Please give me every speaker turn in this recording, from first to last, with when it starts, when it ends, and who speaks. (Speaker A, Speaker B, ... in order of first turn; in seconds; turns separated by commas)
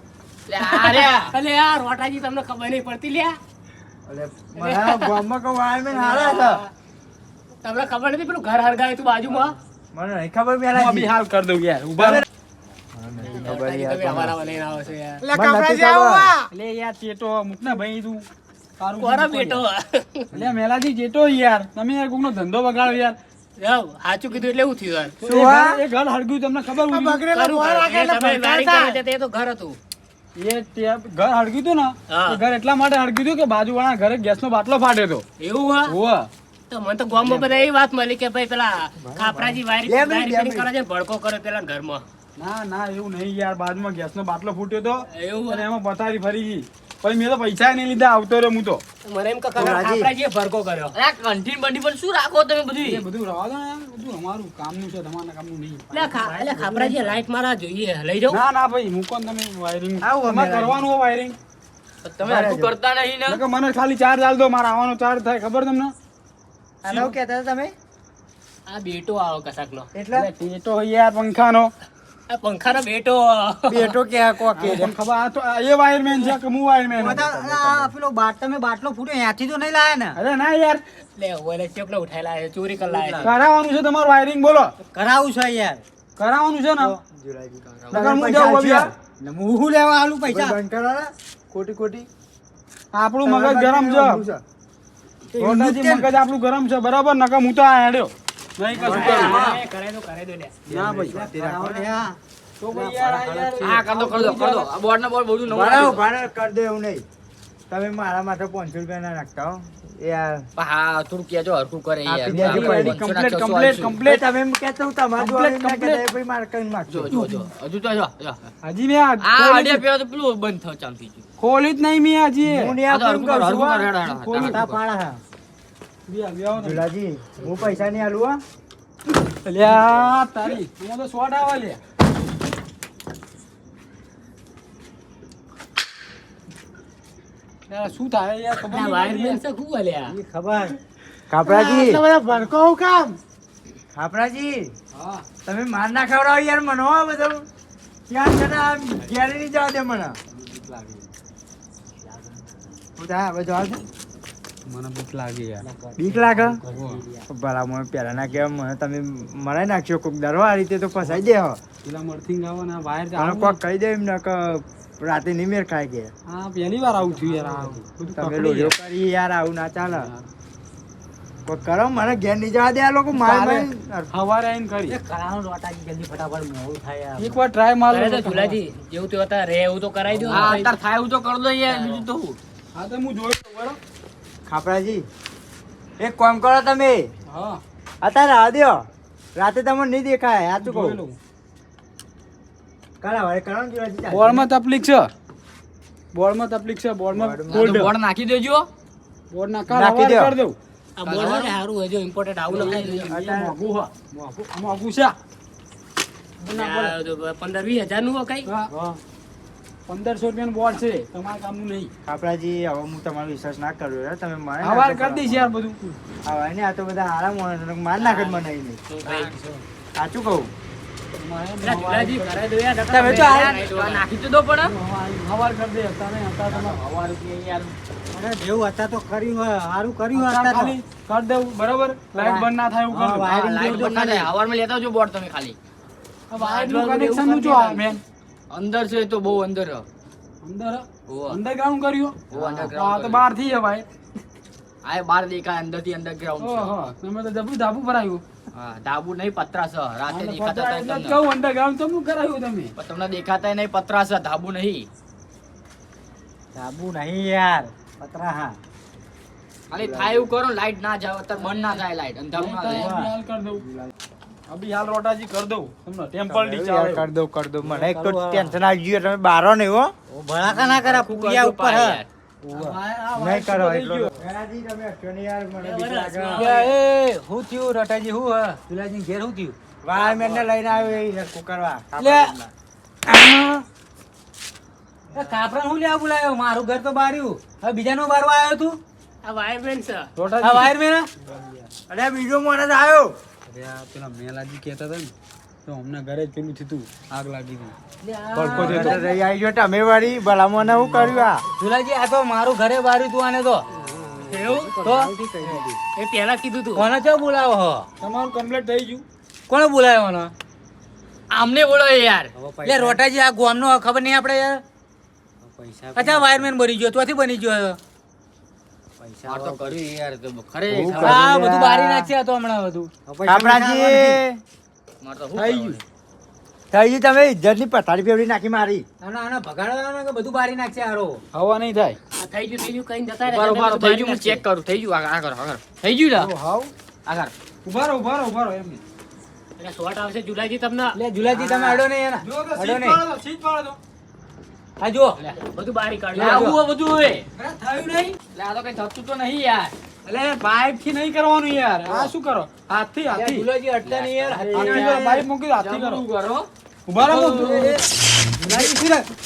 Speaker A: 0.5-1.3, Speaker B: 0.6-3.4, Speaker C: 4.1-6.6, Speaker B: 4.5-5.2, Speaker B: 5.9-6.7, Speaker B: 7.6-9.6, Speaker C: 9.9-11.1, Speaker D: 10.7-12.2, Speaker C: 12.0-12.2, Speaker C: 12.9-14.3, Speaker B: 13.2-15.2, Speaker C: 15.3-16.4, Speaker D: 16.5-18.3, Speaker D: 18.8-19.6, Speaker B: 19.0-20.3, Speaker D: 20.3-23.2, Speaker B: 23.6-25.1, Speaker D: 25.2-27.3, Speaker C: 25.2-25.8, Speaker C: 26.8-27.9, Speaker B: 27.3-29.8, Speaker E: 28.2-28.9, Speaker D: 30.4-35.2, Speaker B: 32.1-32.4, Speaker B: 35.4-35.9, Speaker D: 35.9-36.3, Speaker B: 36.7-42.0, Speaker C: 37.2-37.5, Speaker C: 39.0-40.7, Speaker D: 42.4-48.8, Speaker B: 45.1-45.6, Speaker B: 49.0-50.9, Speaker C: 49.5-50.1, Speaker A: 50.9-53.0, Speaker D: 52.8-55.9, Speaker B: 55.9-58.4, Speaker E: 56.0-57.0, Speaker D: 58.3-61.4, Speaker C: 60.0-60.8, Speaker A: 62.0-63.4, Speaker C: 62.2-62.7, Speaker D: 63.3-65.9, Speaker C: 66.8-67.7, Speaker D: 66.9-67.1, Speaker B: 68.7-69.9, Speaker C: 69.9-70.3, Speaker D: 70.1-71.7, Speaker B: 72.3-74.0, Speaker C: 73.7-74.9, Speaker D: 74.5-77.2, Speaker E: 76.9-80.2, Speaker C: 77.1-77.9, Speaker D: 80.2-80.8, Speaker B: 81.2-83.3, Speaker D: 83.2-84.7, Speaker E: 84.8-85.8, Speaker D: 86.2-86.9, Speaker C: 87.0-88.9, Speaker A: 87.7-88.0, Speaker D: 87.9-88.9, Speaker E: 89.2-90.6, Speaker C: 90.2-91.1, Speaker D: 91.5-92.0, Speaker C: 91.7-92.0, Speaker D: 92.9-94.2, Speaker C: 93.2-94.4, Speaker E: 95.3-96.1, Speaker D: 95.4-99.6, Speaker E: 98.8-99.6, Speaker B: 98.8-100.5, Speaker D: 100.7-101.2, Speaker E: 100.7-102.2, Speaker C: 101.1-101.9, Speaker D: 102.6-104.7, Speaker E: 102.7-103.7, Speaker A: 103.6-106.0, Speaker C: 105.5-107.0, Speaker C: 107.7-110.5, Speaker A: 110.6-114.0, Speaker C: 112.0-113.0, Speaker D: 112.3-114.3, Speaker C: 113.9-117.1, Speaker D: 115.2-116.0, Speaker A: 116.9-118.5, Speaker D: 117.1-117.4, Speaker D: 118.6-119.8, Speaker A: 119.2-121.2, Speaker D: 121.4-122.8, Speaker C: 122.4-123.6, Speaker A: 122.9-124.8, Speaker D: 123.5-124.6, Speaker E: 124.3-125.2, Speaker D: 126.1-126.8, Speaker C: 126.5-128.4, Speaker D: 129.4-131.8, Speaker D: 137.7-139.4, Speaker B: 138.6-140.2, Speaker E: 140.0-140.8, Speaker C: 141.3-142.0, Speaker D: 141.5-143.1, Speaker C: 143.9-144.7, Speaker C: 145.4-147.4, Speaker C: 148.1-150.2, Speaker C: 153.0-153.9, Speaker D: 154.7-155.6, Speaker E: 155.6-157.3, Speaker C: 155.9-156.6, Speaker D: 156.6-157.0, Speaker C: 157.3-161.6, Speaker D: 161.8-163.6, Speaker C: 163.1-166.1, Speaker D: 166.3-168.7, Speaker E: 166.9-167.8, Speaker C: 168.0-170.1, Speaker D: 169.8-170.2, Speaker C: 171.4-174.1, Speaker D: 173.1-175.0, Speaker E: 174.9-177.4, Speaker D: 177.2-178.6, Speaker B: 177.9-180.7, Speaker A: 180.3-182.4, Speaker B: 181.7-182.0, Speaker D: 182.7-183.8, Speaker C: 184.4-185.1, Speaker C: 186.0-187.1, Speaker D: 187.3-187.6, Speaker C: 188.0-188.8, Speaker C: 189.3-191.0, Speaker D: 190.6-191.2, Speaker C: 193.0-194.5, Speaker D: 194.1-195.1, Speaker D: 196.1-197.9, Speaker C: 197.1-197.9, Speaker A: 197.5-198.7, Speaker D: 199.3-200.6, Speaker C: 199.7-200.4, Speaker B: 201.0-203.0, Speaker A: 201.0-201.5, Speaker D: 202.5-205.1, Speaker A: 202.6-203.1, Speaker C: 203.0-203.6, Speaker B: 206.5-208.5, Speaker D: 206.5-206.9, Speaker E: 208.7-209.0, Speaker D: 209.9-211.9, Speaker C: 212.1-215.5, Speaker D: 214.6-216.0, Speaker C: 216.2-218.8, Speaker A: 218.9-219.3, Speaker B: 219.0-219.3, Speaker C: 219.9-220.5, Speaker D: 221.2-222.3, Speaker B: 221.6-224.0, Speaker A: 223.1-224.7, Speaker D: 224.6-226.8, Speaker A: 226.5-227.7, Speaker E: 228.1-230.8, Speaker D: 230.1-233.8, Speaker E: 232.1-234.3, Speaker A: 233.2-235.6, Speaker D: 236.3-238.0, Speaker B: 236.3-238.0, Speaker A: 238.5-239.8, Speaker D: 240.4-242.2, Speaker A: 241.1-241.4, Speaker A: 242.3-243.2, Speaker E: 242.3-242.7, Speaker D: 242.7-243.8, Speaker A: 244.8-246.7, Speaker D: 246.4-248.2, Speaker A: 248.5-251.2, Speaker D: 250.1-252.7, Speaker A: 252.8-254.9, Speaker E: 256.5-258.6, Speaker A: 259.7-262.9, Speaker C: 259.7-260.3, Speaker D: 262.3-263.6, Speaker E: 262.7-263.1, Speaker D: 264.5-267.1, Speaker C: 266.2-269.9, Speaker E: 267.6-268.6, Speaker E: 270.1-273.4, Speaker A: 270.4-272.1, Speaker C: 273.1-276.7, Speaker D: 273.4-274.1, Speaker B: 275.6-276.6, Speaker E: 276.4-279.5, Speaker C: 279.8-282.5, Speaker E: 282.0-282.3, Speaker E: 283.1-283.6, Speaker E: 285.1-288.8, Speaker B: 289.2-290.1, Speaker D: 290.1-290.8, Speaker E: 290.4-291.1, Speaker C: 291.9-293.1, Speaker D: 293.5-295.1, Speaker D: 295.6-297.7, Speaker E: 298.1-299.0, Speaker D: 298.3-299.0, Speaker C: 298.6-301.4, Speaker E: 301.6-305.8, Speaker B: 304.2-306.9, Speaker E: 306.7-307.9, Speaker D: 308.0-309.0, Speaker E: 309.5-310.3, Speaker A: 311.3-312.3, Speaker E: 312.3-314.6, Speaker E: 315.4-317.8, Speaker E: 319.0-319.8, Speaker A: 319.2-321.2, Speaker C: 320.7-322.1, Speaker E: 320.9-324.2, Speaker C: 323.2-324.4, Speaker A: 325.0-325.8, Speaker D: 325.3-325.8, Speaker C: 326.7-328.8, Speaker E: 329.0-331.2, Speaker D: 331.3-332.0, Speaker B: 332.2-334.4, Speaker A: 333.2-336.3, Speaker D: 336.2-336.7, Speaker A: 337.1-337.3, Speaker D: 337.6-338.8, Speaker B: 339.6-341.0, Speaker E: 340.9-343.0, Speaker D: 342.2-343.8, Speaker E: 344.8-345.2, Speaker B: 345.4-346.6, Speaker A: 346.1-347.2, Speaker E: 346.2-346.6, Speaker E: 347.4-348.1, Speaker A: 348.3-349.7, Speaker D: 350.1-353.5, Speaker E: 353.1-355.1, Speaker A: 353.5-356.5, Speaker D: 354.5-356.0, Speaker D: 356.9-357.8, Speaker E: 357.0-357.8, Speaker E: 358.4-359.1, Speaker D: 358.5-358.7